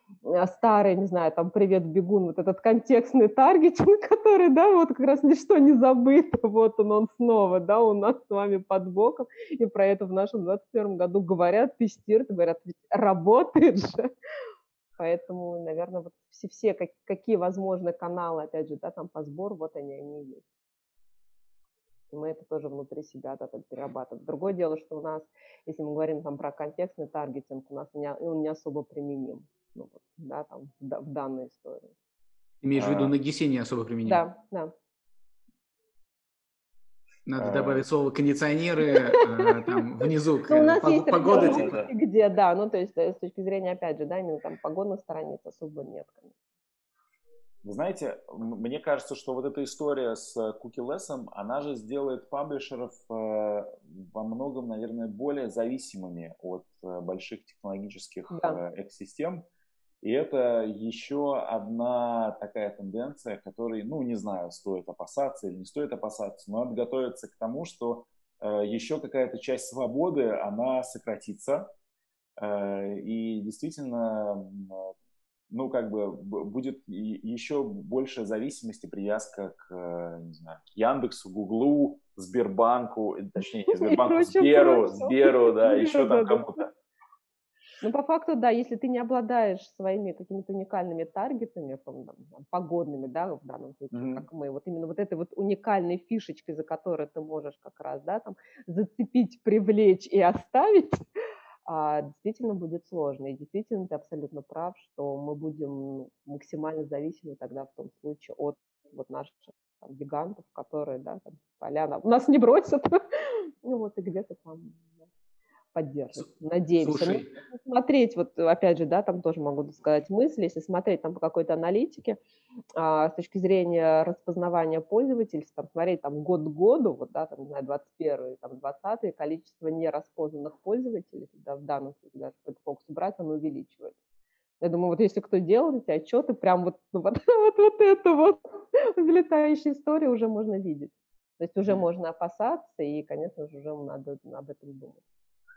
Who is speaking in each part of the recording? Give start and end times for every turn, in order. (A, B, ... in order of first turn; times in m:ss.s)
0:00.2-0:14.1 A
0:15.0-0:20.5 A
0:22.1-0:31.9 A
0:32.6-0:34.2 B
0:32.8-0:33.1 C
0:34.0-0:34.7 A
0:37.2-0:41.9 B
0:37.4-0:37.8 C
0:38.9-0:39.8 A
0:40.5-0:46.3 A
0:41.3-0:41.9 C
0:47.6-0:59.4 C
0:58.3-0:58.6 A
1:00.0-1:11.7 C
1:12.4-1:14.9 C
1:15.5-1:26.7 C
1:23.7-1:26.5 A
1:27.8-1:41.0 A
1:33.9-1:34.2 C
1:41.6-1:55.0 A
1:55.7-2:02.2 A
1:56.8-1:57.3 B
2:02.8-2:13.9 A
2:14.6-2:25.0 A